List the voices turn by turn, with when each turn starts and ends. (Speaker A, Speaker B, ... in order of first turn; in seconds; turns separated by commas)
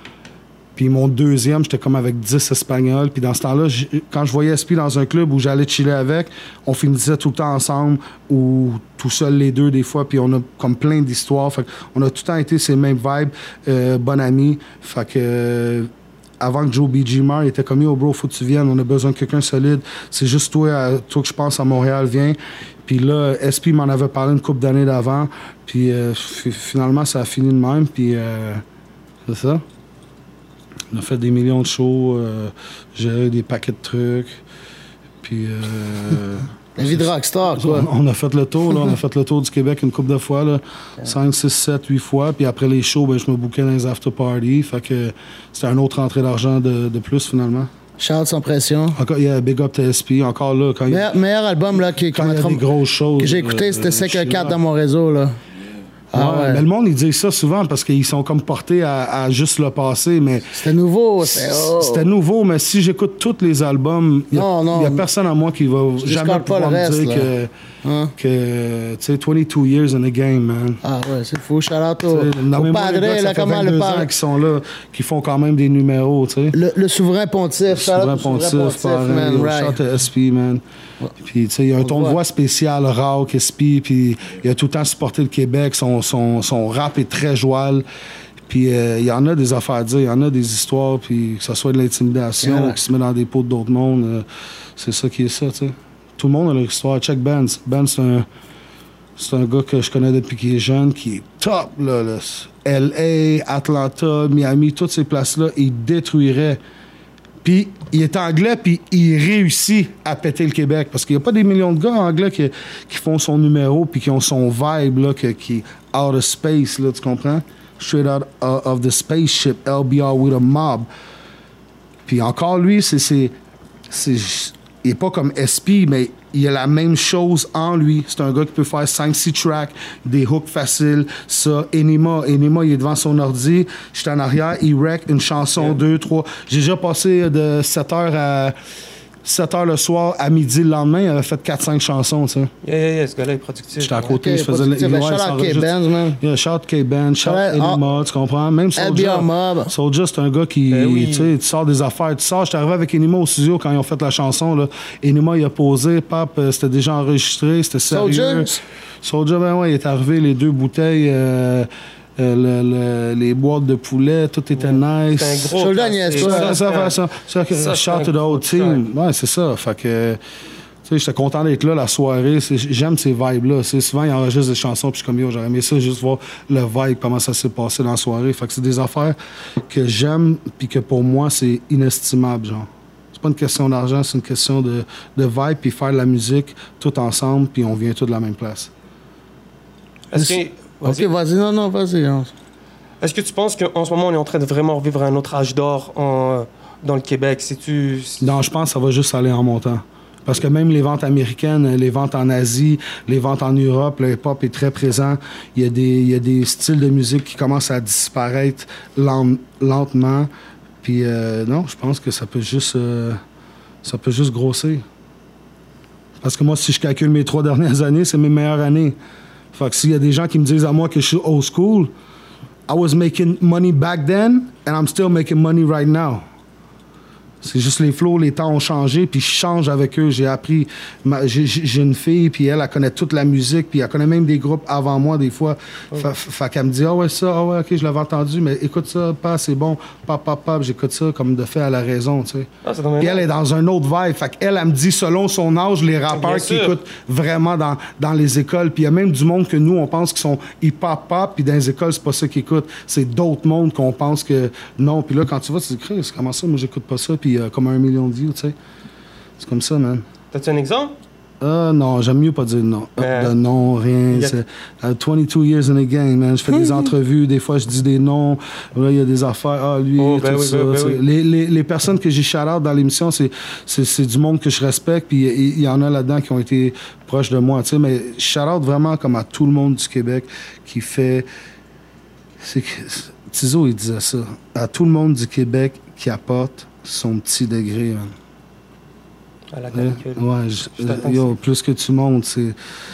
Speaker A: 0.8-15.9, Speaker A: 16.4-28.6, Speaker A: 29.3-29.6, Speaker A: 30.9-34.4, Speaker A: 35.2-47.7, Speaker B: 36.8-37.9, Speaker B: 48.0-49.0, Speaker A: 49.0-51.1, Speaker B: 50.9-52.6, Speaker A: 52.0-54.6, Speaker B: 53.2-55.4, Speaker B: 56.1-56.6, Speaker A: 56.1-60.6, Speaker B: 60.5-62.1, Speaker A: 61.2-67.5, Speaker B: 64.3-65.1, Speaker B: 66.0-67.3, Speaker B: 67.8-68.2, Speaker A: 68.2-70.8, Speaker B: 70.8-74.1, Speaker A: 72.1-76.6, Speaker B: 76.5-79.8, Speaker A: 77.7-80.6, Speaker A: 81.2-87.9, Speaker B: 81.8-82.2, Speaker A: 88.5-94.3, Speaker B: 92.4-92.8, Speaker A: 94.8-98.3, Speaker A: 99.2-106.6, Speaker A: 107.4-120.9, Speaker A: 122.1-123.3, Speaker A: 123.9-138.6, Speaker A: 139.2-142.5, Speaker C: 142.6-144.1, Speaker A: 143.8-165.6, Speaker B: 144.1-146.2, Speaker B: 147.2-147.8, Speaker B: 148.8-149.7, Speaker C: 150.7-151.3, Speaker B: 157.9-158.6, Speaker C: 164.6-167.0, Speaker B: 165.5-166.6, Speaker A: 166.2-170.2, Speaker C: 167.5-168.8, Speaker A: 170.8-188.7, Speaker C: 190.1-191.1, Speaker B: 190.8-192.3, Speaker C: 193.0-198.3, Speaker A: 198.2-210.3, Speaker A: 210.8-213.2, Speaker A: 213.8-214.8, Speaker A: 216.2-219.0, Speaker A: 219.5-221.9, Speaker A: 222.7-226.2, Speaker A: 227.4-242.5, Speaker C: 242.6-243.3, Speaker A: 243.0-258.6, Speaker C: 246.1-246.8, Speaker A: 259.4-260.1, Speaker C: 260.3-260.9, Speaker A: 261.4-281.3, Speaker C: 263.0-263.4, Speaker C: 264.1-264.4, Speaker C: 270.0-271.0, Speaker A: 282.4-288.1, Speaker C: 289.5-291.4, Speaker A: 289.7-292.6